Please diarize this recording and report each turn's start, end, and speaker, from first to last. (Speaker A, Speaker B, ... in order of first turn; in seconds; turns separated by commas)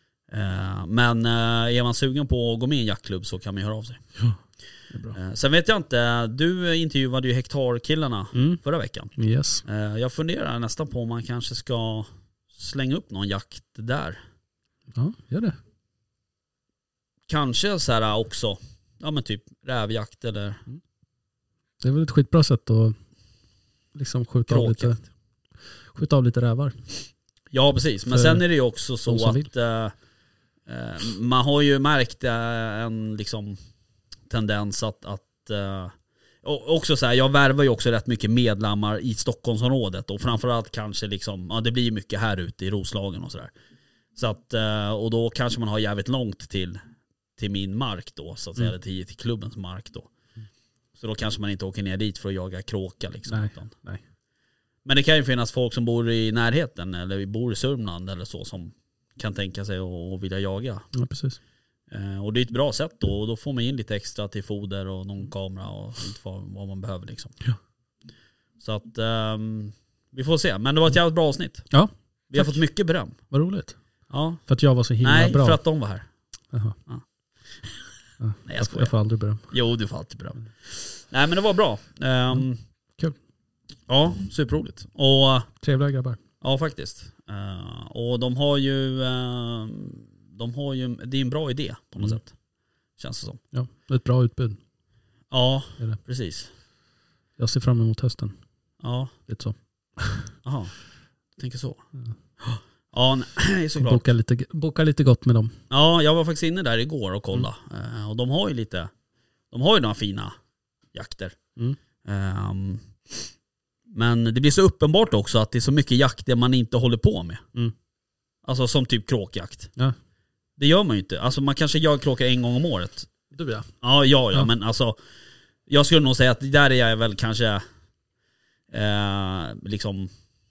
Speaker A: 0.3-4.2, Speaker B: 4.2-5.2, Speaker A: 5.1-14.2, Speaker B: 8.3-8.6, Speaker B: 9.1-9.6, Speaker B: 14.9-15.6, Speaker A: 17.3-20.6, Speaker B: 21.8-22.9, Speaker B: 23.9-25.1, Speaker A: 24.5-25.0, Speaker B: 25.9-26.8, Speaker A: 27.5-29.9, Speaker B: 28.1-28.5, Speaker B: 29.0-29.5, Speaker A: 30.6-33.6, Speaker A: 34.3-43.5, Speaker A: 44.1-46.8, Speaker A: 47.4-50.1, Speaker A: 51.0-53.8, Speaker B: 53.3-54.0, Speaker A: 54.8-60.9, Speaker B: 60.9-61.4, Speaker A: 61.9-67.4, Speaker A: 68.6-71.8, Speaker B: 71.7-75.6, Speaker A: 72.3-73.3, Speaker A: 74.1-76.1, Speaker B: 76.5-76.8, Speaker B: 78.2-79.5, Speaker A: 78.4-82.6, Speaker A: 83.9-85.6, Speaker B: 85.6-86.2, Speaker A: 86.4-92.4, Speaker A: 93.0-93.4, Speaker B: 93.5-94.6, Speaker A: 95.3-96.5, Speaker B: 97.4-98.4, Speaker A: 98.8-99.1, Speaker B: 99.3-100.2, Speaker A: 100.4-101.9, Speaker A: 102.4-104.0, Speaker B: 103.8-105.5, Speaker A: 105.7-108.9, Speaker A: 109.5-110.3, Speaker A: 110.9-113.3, Speaker A: 113.9-117.4, Speaker A: 118.4-119.7, Speaker A: 120.6-123.1, Speaker B: 123.3-123.7, Speaker A: 123.8-125.0, Speaker A: 125.7-127.6, Speaker A: 128.7-130.1